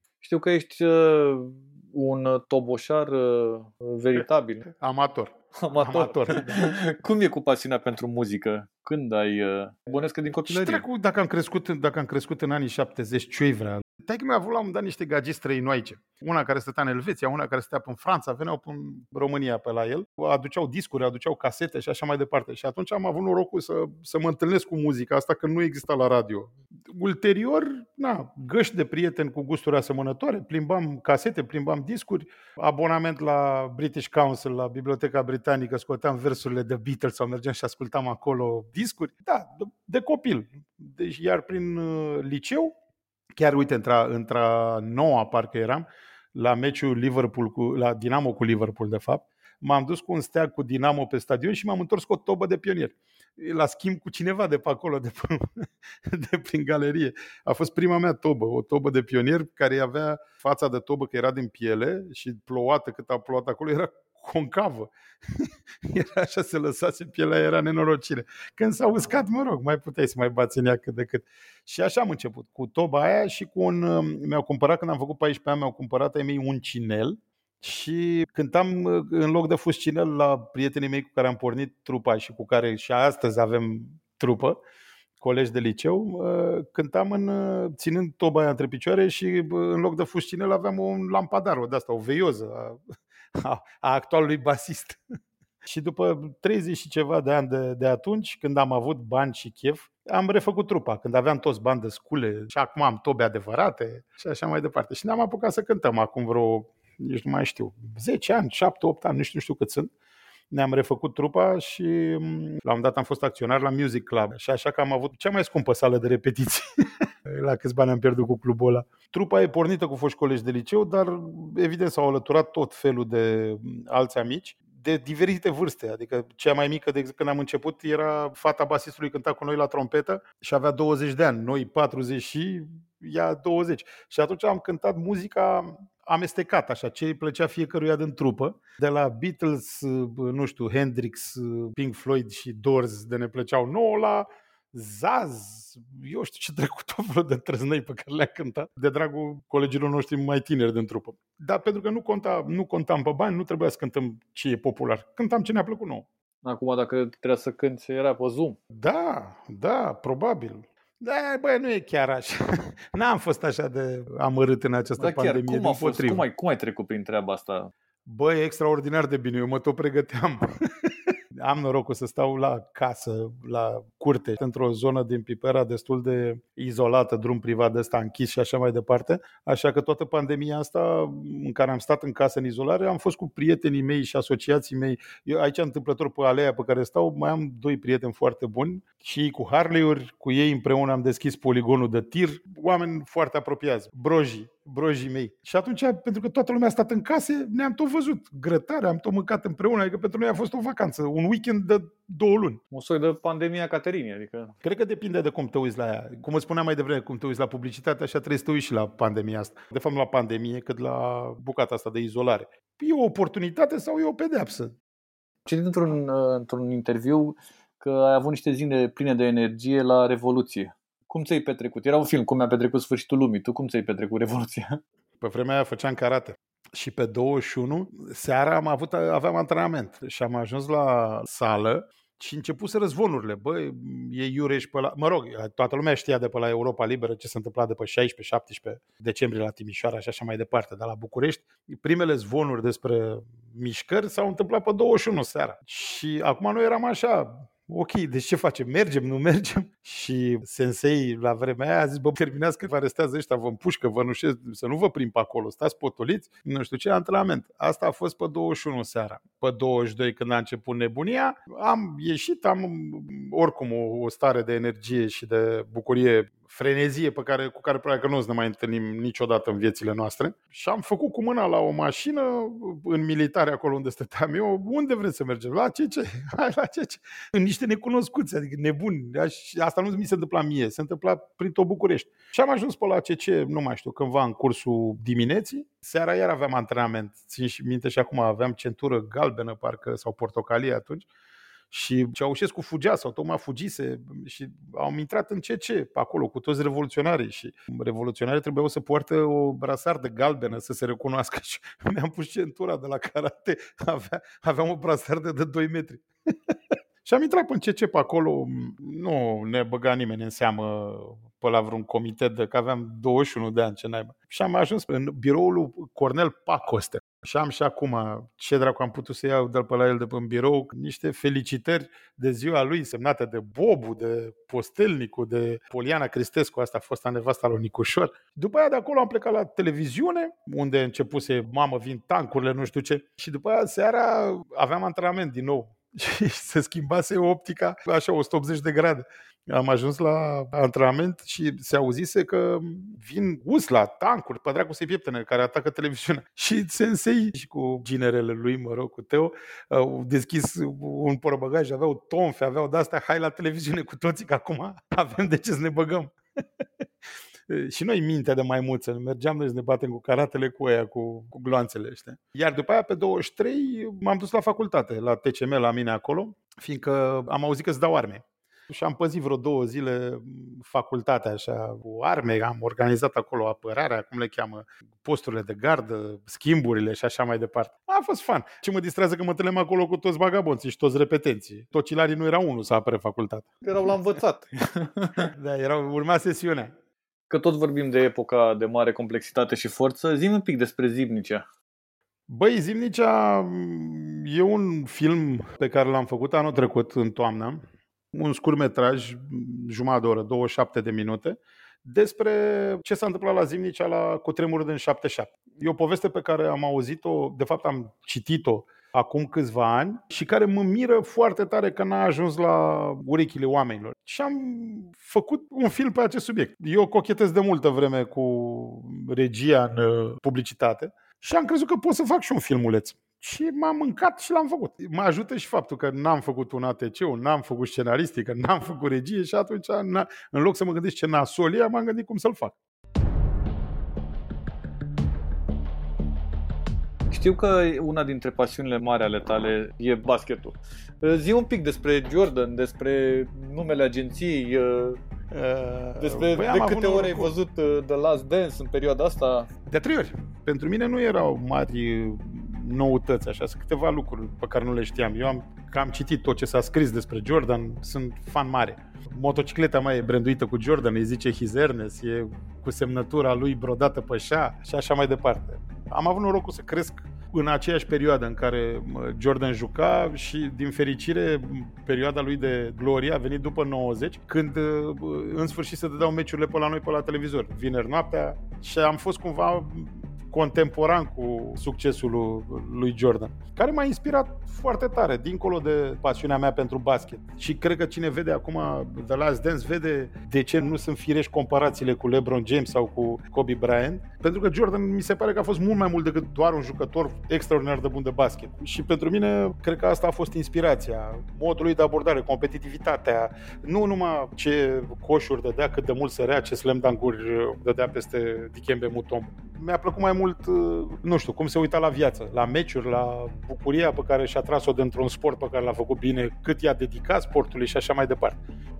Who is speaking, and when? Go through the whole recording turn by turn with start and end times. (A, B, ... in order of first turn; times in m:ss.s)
0:00.2-0:04.7 A
0:04.8-0:06.7 B
0:05.6-0:10.8 A
0:10.5-0:42.8 B
0:43.4-1:24.6 B
1:25.2-1:32.8 B
1:33.4-1:35.0 B
1:35.6-1:49.9 B
1:50.5-2:36.1 B
2:36.4-2:38.6 A
2:38.7-2:46.2 B
2:45.0-2:47.7 A
2:48.1-3:22.6 B
3:22.7-3:24.6 A
3:24.6-3:34.8 B
3:35.5-3:44.8 A
3:45.2-4:51.0 B
4:51.7-5:56.1 B
5:57.5-6:23.5 B
6:23.6-6:25.3 A
6:25.3-6:26.7 B
6:27.3-6:31.4 A
6:32.3-6:37.6 B
6:38.1-7:12.6 B
7:17.1-7:25.0 A
7:25.3-7:27.3 B
7:26.0-7:29.5 A
7:29.7-8:38.4 B